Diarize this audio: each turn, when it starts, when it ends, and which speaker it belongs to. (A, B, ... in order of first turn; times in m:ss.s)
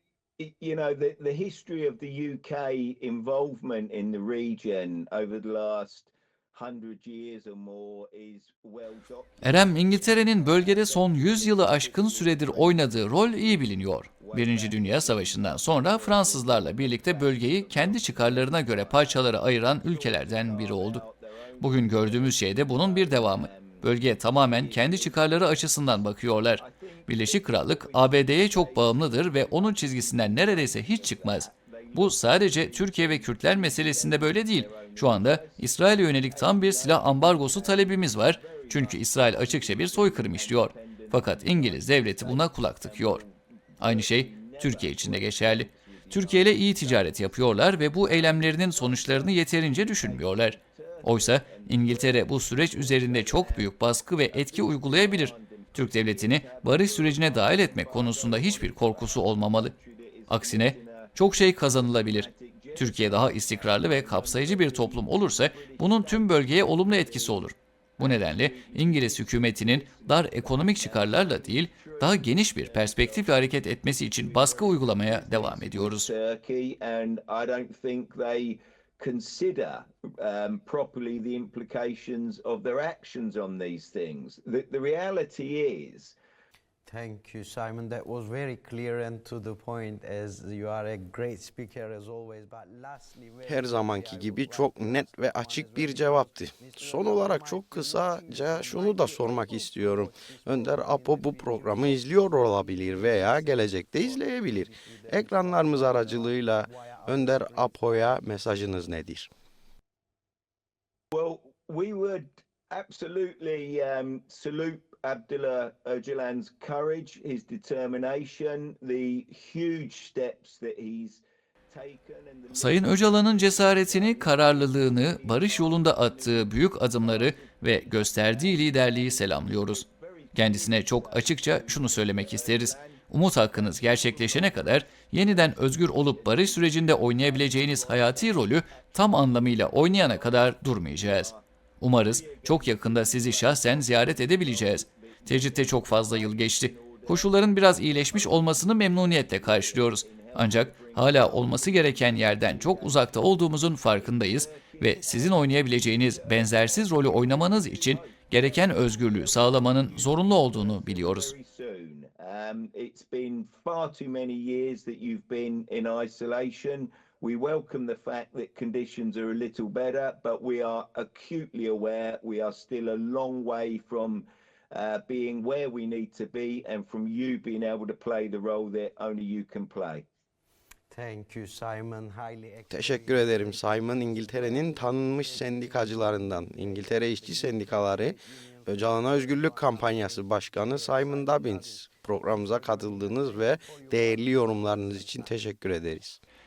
0:00.4-0:26.0 A
0:09.4-0:21.0 B
0:21.6-0:43.2 B
0:26.6-0:35.7 A
0:36.3-0:53.7 A
0:43.8-0:59.7 B
0:54.3-1:13.4 A
1:00.3-1:16.1 B
1:14.1-1:26.2 A
1:26.8-1:48.1 C
1:33.4-1:49.3 D
1:51.1-2:21.4 A
2:02.5-2:09.8 B
2:10.3-2:41.3 B
2:22.0-3:00.0 A
3:00.9-3:16.0 C
3:02.7-3:16.2 D